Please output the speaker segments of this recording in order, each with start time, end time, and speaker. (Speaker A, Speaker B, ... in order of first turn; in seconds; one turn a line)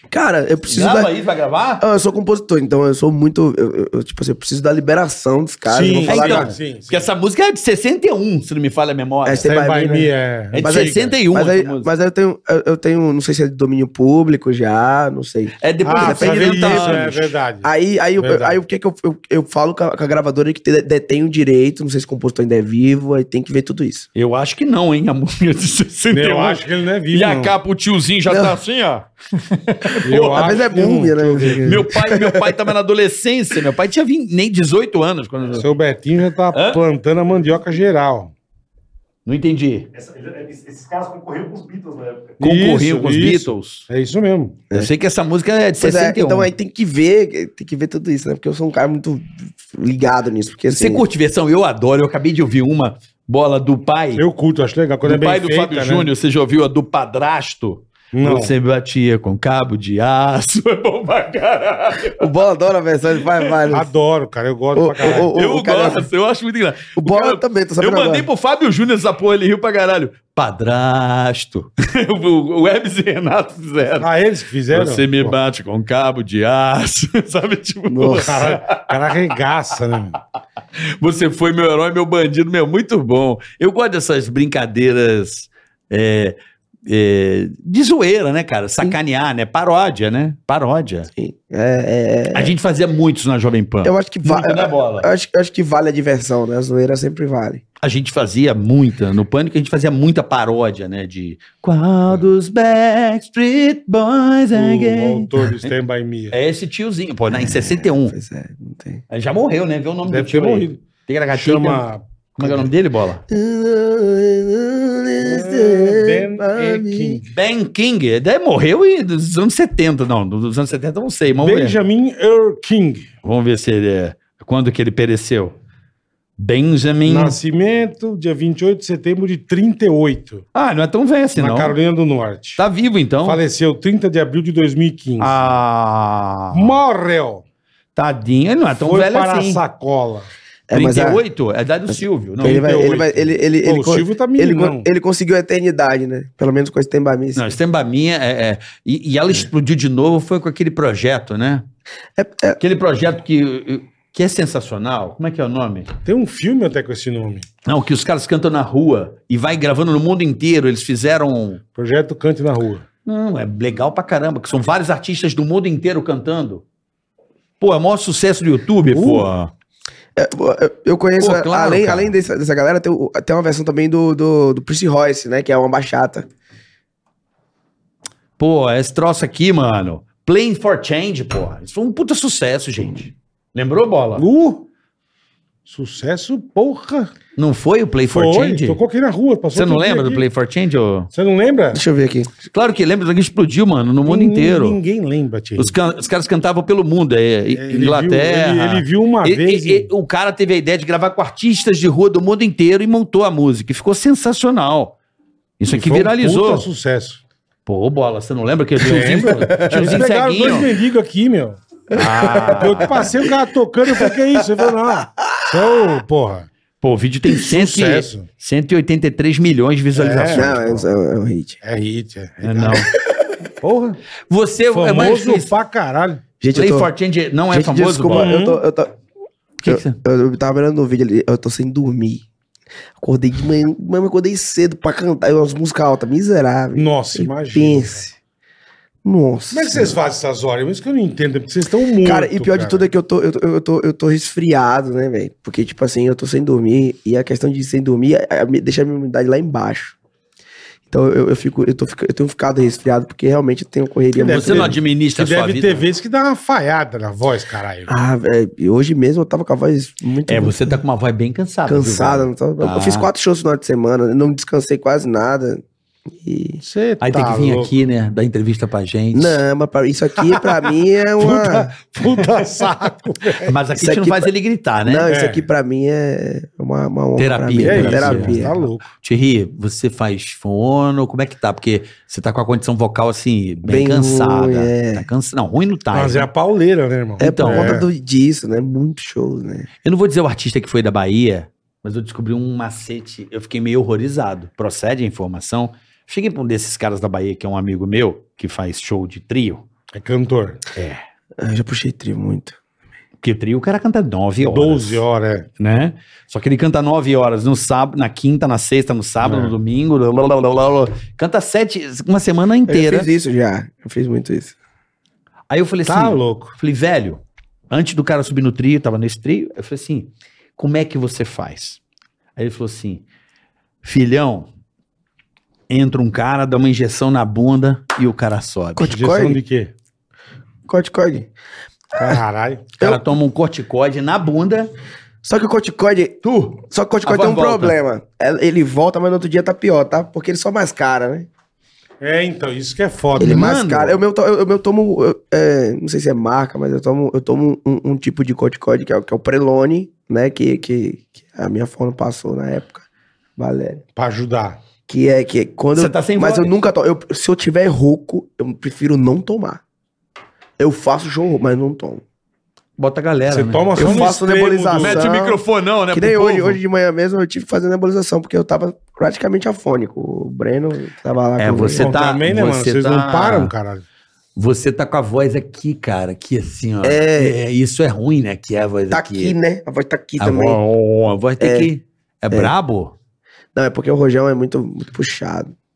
Speaker A: 0.1-1.1
Speaker B: 0.7-1.8
Speaker A: 1.8-6.5
Speaker C: 5.7-7.1
Speaker B: 6.1-9.5
Speaker A: 9.3-24.1
Speaker C: 9.4-11.2
Speaker B: 10.5-11.9
Speaker B: 15.6-17.3
Speaker C: 15.8-17.7
Speaker C: 18.2-18.6
Speaker B: 24.1-30.5
Speaker C: 26.1-27.6
Speaker A: 28.3-28.6
Speaker C: 30.0-31.8
Speaker A: 30.1-32.6
Speaker B: 31.6-35.7
Speaker C: 35.5-38.3
Speaker B: 36.5-36.8
Speaker B: 39.3-39.9
Speaker D: 39.9-42.4
Speaker B: 42.4-43.9
Speaker C: 42.4-44.6
Speaker B: 44.7-46.5
Speaker A: 45.8-51.0
Speaker B: 50.7-54.2
Speaker C: 54.1-56.1
Speaker B: 55.0-62.2
Speaker C: 58.1-58.5
Speaker A: 62.1-63.9
Speaker C: 63.7-65.3
Speaker A: 64.8-66.1
Speaker B: 65.0-74.1
Speaker A: 67.0-68.3
Speaker C: 74.0-75.4
Speaker B: 74.7-78.9
Speaker A: 77.9-78.4
Speaker C: 78.1-80.2
Speaker B: 80.8-91.1
Speaker A: 91.2-92.5
Speaker B: 92.3-95.1
Speaker A: 93.8-97.6
Speaker B: 97.8-105.7
Speaker C: 104.5-106.4
Speaker B: 106.3-108.1
Speaker A: 107.3-109.0
Speaker B: 109.1-111.8
Speaker C: 110.0-110.8
Speaker C: 111.3-112.7
Speaker B: 112.4-113.2
Speaker A: 113.3-117.2
Speaker C: 115.2-117.3
Speaker B: 117.3-121.8
Speaker C: 121.3-123.1
Speaker B: 123.2-125.6
Speaker B: 126.4-127.4
Speaker C: 127.1-130.4
Speaker B: 130.5-131.7
Speaker C: 131.4-132.6
Speaker B: 132.6-133.4
Speaker C: 133.2-135.4
Speaker B: 135.2-136.8
Speaker C: 136.5-137.4
Speaker B: 138.0-139.6
Speaker C: 138.8-140.3
Speaker A: 140.7-141.2
Speaker B: 140.7-142.6
Speaker A: 142.4-147.6
Speaker C: 142.4-144.9
Speaker B: 147.4-151.7
Speaker A: 152.2-152.6
Speaker B: 152.6-155.9
Speaker C: 156.1-157.5
Speaker B: 157.7-161.6
Speaker C: 161.8-162.8
Speaker B: 163.1-166.6
Speaker B: 167.6-169.5
Speaker C: 168.9-169.3
Speaker A: 170.2-176.3
Speaker B: 171.2-172.1
Speaker B: 178.4-184.3
Speaker C: 184.2-184.7
Speaker C: 185.7-187.1
Speaker B: 187.4-188.8
Speaker C: 188.1-190.3
Speaker B: 189.5-191.1
Speaker C: 191.1-191.8
Speaker A: 191.7-192.3
Speaker B: 192.5-194.8
Speaker C: 194.1-195.7
Speaker B: 195.6-204.9
Speaker C: 197.5-199.9
Speaker B: 205.6-206.7
Speaker C: 205.7-207.2
Speaker B: 207.7-210.7
Speaker C: 208.8-211.6
Speaker A: 209.6-209.9
Speaker B: 211.9-213.1
Speaker A: 212.0-213.3
Speaker C: 212.6-216.5
Speaker A: 214.0-215.6
Speaker B: 216.8-220.9
Speaker C: 217.4-218.3
Speaker C: 219.9-220.6
Speaker A: 220.3-221.6
Speaker C: 221.6-222.9
Speaker B: 222.4-222.9
Speaker C: 223.6-224.0
Speaker B: 224.3-225.5
Speaker C: 224.7-226.2
Speaker A: 226.4-226.9
Speaker B: 226.5-228.4
Speaker A: 227.5-228.9
Speaker C: 228.1-228.6
Speaker B: 229.6-230.0
Speaker A: 229.7-232.2
Speaker A: 233.0-238.1
Speaker C: 236.8-238.0
Speaker A: 239.1-240.0
Speaker C: 239.5-242.9
Speaker A: 242.0-250.0
Speaker A: 250.9-254.8
Speaker C: 254.2-257.9
Speaker B: 254.3-255.8
Speaker A: 257.9-260.8
Speaker B: 260.3-263.1
Speaker A: 261.7-265.6
Speaker A: 266.2-266.6
Speaker C: 266.6-267.7
Speaker B: 267.0-269.4
Speaker A: 269.1-271.7
Speaker C: 271.2-273.6
Speaker B: 273.5-275.1
Speaker A: 273.8-274.3
Speaker A: 274.9-278.5
Speaker C: 275.1-275.5
Speaker B: 277.2-278.5
Speaker C: 277.6-278.9
Speaker B: 279.0-286.3
Speaker A: 283.6-285.1
Speaker C: 285.9-287.9
Speaker B: 287.2-287.8
Speaker A: 287.2-289.7
Speaker B: 289.8-299.7
Speaker C: 299.9-300.7
Speaker A: 301.4-302.6
Speaker B: 303.2-305.0
Speaker C: 304.4-305.5
Speaker B: 305.6-313.1
Speaker C: 309.2-309.6
Speaker A: 312.7-314.6
Speaker B: 315.5-321.8
Speaker C: 315.9-316.6
Speaker B: 322.4-323.1
Speaker B: 323.8-324.5
Speaker B: 325.7-328.9
Speaker A: 328.8-329.4
Speaker C: 328.8-329.7
Speaker A: 330.7-331.3
Speaker C: 331.9-332.8
Speaker B: 332.8-334.7
Speaker A: 335.2-341.3
Speaker B: 336.2-337.8
Speaker C: 342.0-343.5
Speaker B: 343.2-344.0
Speaker A: 343.2-352.9
Speaker A: 353.4-353.8
Speaker C: 354.0-354.6
Speaker A: 354.9-359.6
Speaker B: 355.7-356.5
Speaker A: 360.6-362.0
Speaker B: 362.8-364.1
Speaker C: 363.3-365.1
Speaker A: 363.8-371.9
Speaker B: 364.8-366.6
Speaker B: 371.4-373.5
Speaker C: 371.8-373.9
Speaker B: 374.4-379.4
Speaker A: 376.8-377.4
Speaker A: 378.9-380.6
Speaker B: 380.2-382.9
Speaker A: 381.4-381.7
Speaker A: 383.6-385.5